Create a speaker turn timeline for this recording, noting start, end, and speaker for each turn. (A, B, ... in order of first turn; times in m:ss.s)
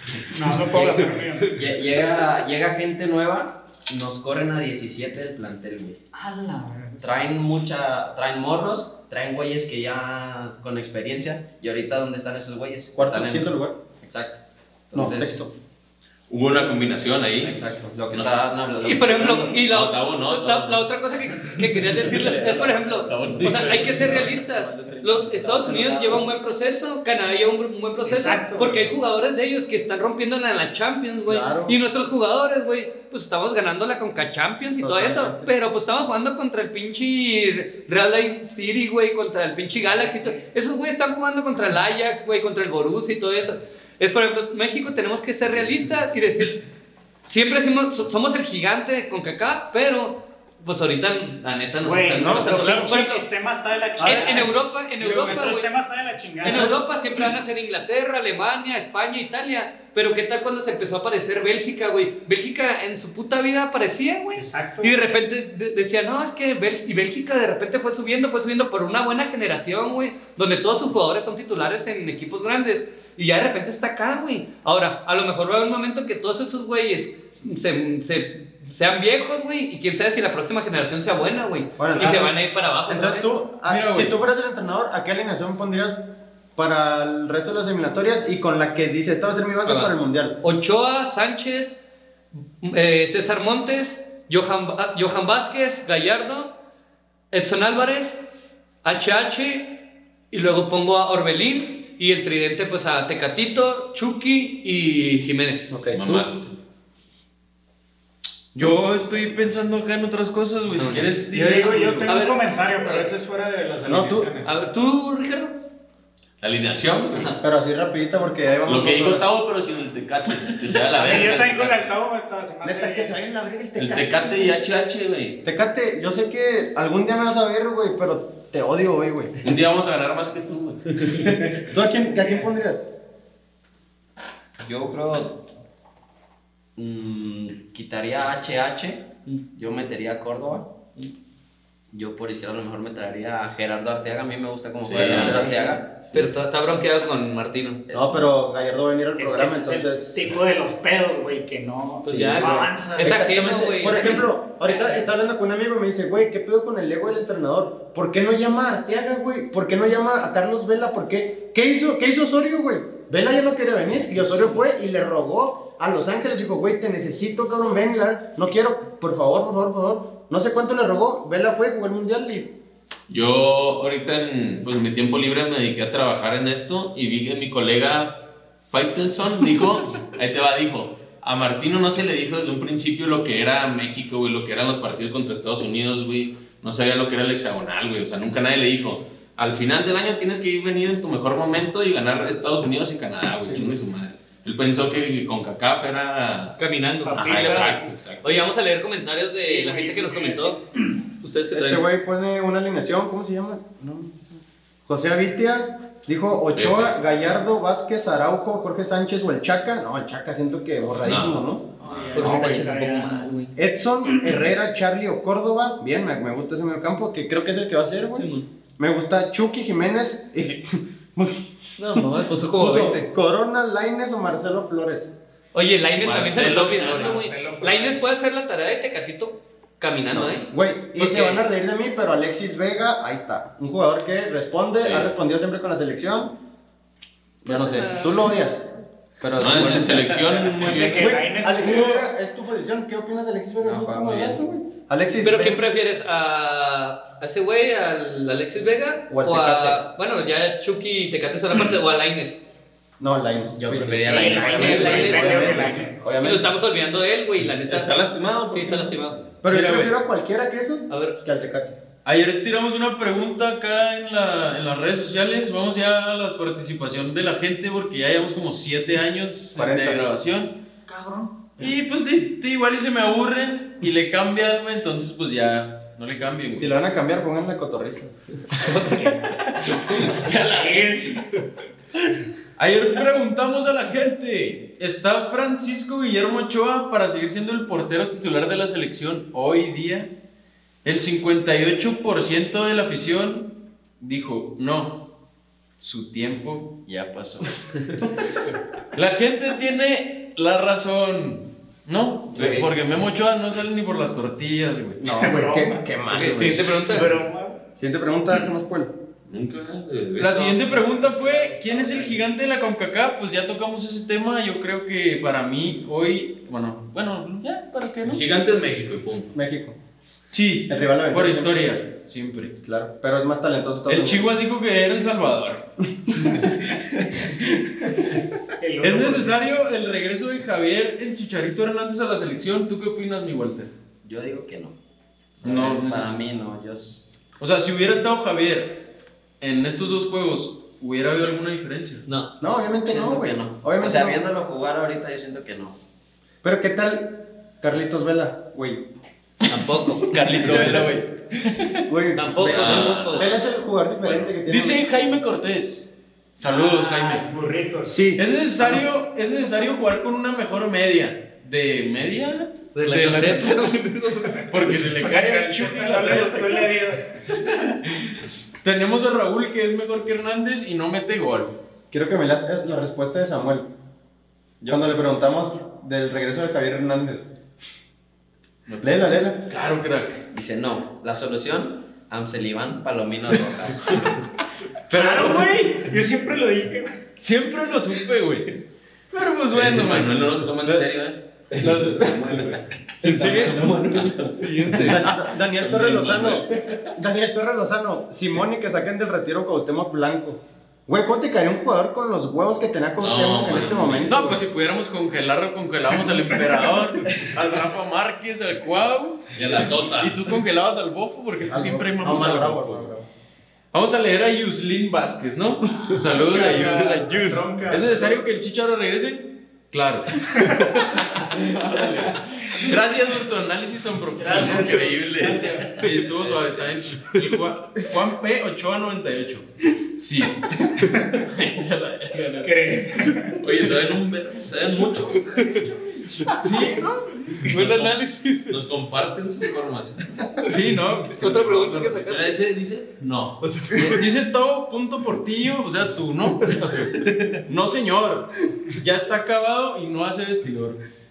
0:00.3-0:01.6 A
0:00.7-0:06.0 B
0:06.1-0:07.3 A
0:07.0-0:15.5 B
0:13.0-0:13.8 C
0:14.9-0:15.5 C
0:16.3-0:17.6 D
0:17.4-0:19.6 B
0:18.8-0:46.6 E
0:19.6-0:24.3 D
0:22.2-0:22.8 F
0:23.4-0:25.3 F
0:25.2-0:26.3 B
0:28.0-0:28.9 A
0:31.3-0:31.8 C
0:34.8-0:35.5 C
0:39.7-0:40.5 A
0:47.3-0:53.3 E
0:51.8-0:56.8 A
0:52.2-0:53.0 C
0:54.0-0:55.7 E
0:54.0-0:54.4 C
0:56.4-1:23.3 E
0:56.4-0:56.8 C
1:04.4-1:05.1 A
1:21.8-1:22.3 C
1:22.9-1:26.0 C
1:23.6-1:24.2 F
1:26.6-1:30.4 C
1:29.6-1:31.8 E
1:32.6-1:36.5 E
1:37.3-1:38.2 E
1:38.8-1:45.8 E
1:45.7-1:46.2 C
1:45.9-1:46.5 D
1:48.6-1:52.2 F
1:50.8-1:51.1 E
1:51.3-1:54.5 A
1:52.1-1:53.2 E
1:53.9-1:54.3 C
1:54.4-1:55.6 E
1:56.4-1:57.3 D
1:57.1-1:57.4 E
1:57.4-1:59.3 C
1:58.7-2:01.9 D
2:00.9-2:03.2 A
2:02.6-2:04.5 C
2:03.8-2:05.4 D
2:05.4-2:09.3 C
2:09.4-2:11.3 D
2:11.6-2:12.8 C
2:14.6-2:15.4 B
2:16.8-2:20.8 B
2:21.9-2:26.2 B
2:24.9-2:25.4 F
2:25.0-2:25.3 D
2:25.0-2:27.8 E
2:27.9-2:28.3 B
2:27.9-2:30.3 C
2:29.2-2:33.2 A
2:32.0-2:34.3 E
2:32.1-2:52.5 C
2:53.1-3:16.6 D
3:16.6-3:20.6 E
3:17.0-3:17.9 A
3:17.2-3:18.5 D
3:19.4-3:20.6 A
3:21.2-3:21.8 E
3:21.5-3:32.7 C
3:26.5-3:27.0 D
3:31.0-3:32.2 D
3:31.8-3:33.3 A
3:32.1-3:33.5 E
3:33.6-3:41.4 C
3:38.2-3:38.5 E
3:41.8-3:43.1 E
3:42.6-3:45.1 C
3:45.5-3:51.4 E
3:46.0-3:47.3 D
3:46.6-3:48.1 A
3:50.1-3:56.3 C
3:57.4-3:58.7 C
3:57.4-3:58.4 E
3:59.2-4:05.6 C
3:59.4-4:01.2 D
4:00.6-4:02.1 A
4:03.6-4:04.4 B
4:05.2-4:12.4 E
4:09.1-4:09.8 C
4:13.0-4:16.5 C
4:13.6-4:15.8 B
4:14.1-4:16.1 A
4:14.4-4:15.6 E
4:15.3-4:15.7 F
4:16.1-4:19.2 E
4:17.4-4:19.0 D
4:19.4-4:21.8 C
4:19.5-4:19.9 F
4:20.9-4:21.2 E
4:22.0-4:30.6 F
4:29.6-4:30.0 C
4:30.9-4:31.3 A
4:31.6-4:36.7 F
4:36.5-4:38.1 C
4:38.6-4:39.0 E
4:38.7-4:39.2 A
4:39.8-4:41.2 D
4:40.1-4:41.3 A
4:42.6-4:50.1 F
4:50.8-4:55.1 F
4:55.8-4:57.5 F
4:58.9-5:05.0 F
5:02.3-5:02.7 E
5:05.0-5:07.0 C
5:05.0-5:07.6 A
5:06.1-5:07.1 E
5:07.8-5:08.9 C
5:09.3-5:10.4 D
5:10.2-5:18.2 F
5:10.7-5:12.3 A
5:18.0-5:19.3 D
5:19.3-5:19.8 C
5:20.3-5:22.6 F
5:20.7-5:21.6 C
5:22.6-5:24.3 C
5:23.9-5:25.7 F
5:28.6-5:29.4 A
5:28.8-5:33.7 F
5:34.0-5:34.8 B
5:35.4-5:37.1 B
5:35.4-5:36.2 F
5:37.4-5:38.9 F
5:39.4-5:42.0 F
5:42.1-5:42.3 E
5:42.4-5:44.2 C
5:42.8-5:45.8 B
5:46.4-5:48.9 C
5:49.5-5:50.1 E
5:50.1-5:51.8 F
5:50.4-5:50.8 C
5:51.9-5:54.9 C
5:52.2-5:53.3 E
5:52.5-5:53.4 D
5:54.4-5:57.3 F
5:56.4-5:58.1 A
5:57.9-5:58.8 C
5:58.2-6:03.8 F
6:02.8-6:04.4 E
6:04.5-6:06.8 F
6:05.0-6:07.1 A
6:08.6-6:11.6 F
6:11.9-6:13.7 C
6:14.6-6:14.9 B
6:14.7-6:17.3 C
6:18.7-6:20.2 F
6:18.8-6:19.4 C
6:20.3-6:24.1 B
6:24.9-6:25.9 F
6:24.9-6:27.0 A
6:27.2-6:30.9 F
6:29.5-6:31.2 D
6:31.6-6:32.1 F
6:31.6-6:33.5 C
6:33.0-6:34.4 D
6:33.1-6:33.8 F
6:34.5-6:35.0 E
6:34.6-6:35.0 F
6:34.8-6:44.4 C
6:35.4-6:36.5 D
6:43.0-6:44.2 D
6:44.1-6:52.9 F
6:49.4-6:50.2 D
6:51.5-6:53.1 C
6:53.7-7:04.8 F
6:56.0-6:58.2 A
7:01.4-7:02.2 A
7:04.2-7:05.8 A
7:04.3-7:06.6 D
7:05.8-7:11.0 F
7:11.3-7:12.5 D
7:12.0-7:12.4 F
7:12.4-7:13.4 A
7:13.4-7:15.6 D
7:14.9-7:16.8 E
7:15.4-7:17.8 F
7:17.5-7:18.6 E
7:17.5-7:18.0 D
7:18.5-7:20.1 D
7:20.4-7:22.0 F
7:21.2-7:22.4 E
7:22.0-7:23.4 D
7:23.4-7:24.1 E
7:23.7-7:26.9 F
7:26.4-7:26.9 E
7:27.5-7:30.8 F